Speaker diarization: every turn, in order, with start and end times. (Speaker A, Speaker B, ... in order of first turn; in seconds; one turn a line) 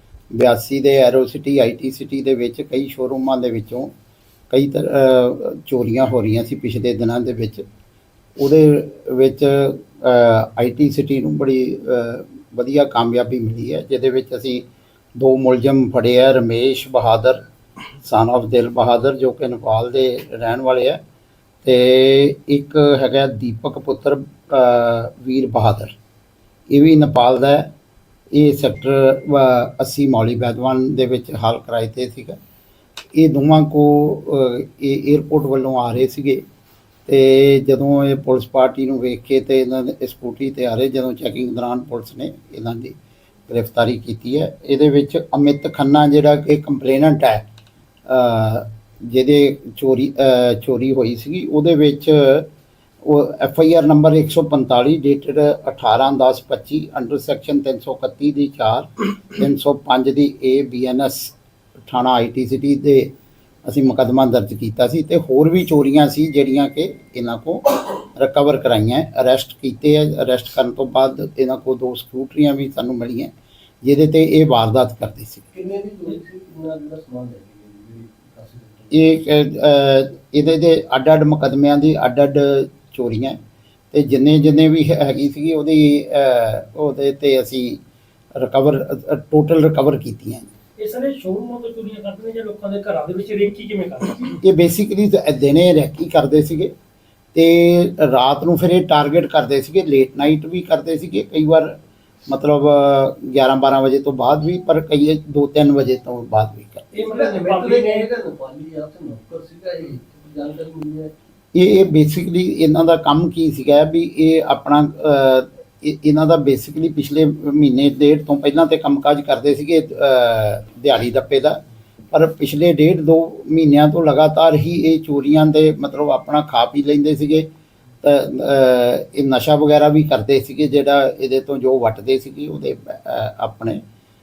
Speaker A: 0.3-3.9
Speaker A: 4.5-7.7
Speaker A: 8.4-14.6
Speaker A: 15.2-17.4
Speaker A: 18.0-21.0
Speaker A: 21.6-25.9
Speaker A: 26.7-27.7
Speaker A: 28.3-32.4
Speaker A: 33.1-36.4
Speaker A: 37.1-43.0
Speaker A: 43.5-47.4
Speaker A: 48.1-52.5
Speaker A: 53.0-61.3
Speaker A: 61.9-63.1
Speaker A: 63.6-73.3
Speaker A: 73.8-75.5
Speaker B: 75.5-79.3
Speaker A: 78.9-83.4
Speaker A: 83.9-87.8
Speaker A: 88.3-90.5
Speaker C: 90.8-94.4
Speaker A: 94.4-96.7
Speaker A: 97.3-101.7
Speaker A: 102.3-106.9
Speaker B: 106.9-111.1
Speaker C: 107.0-108.1
Speaker A: 111.5-121.6
Speaker A: 122.1-127.5
Speaker A: 128.0-133.8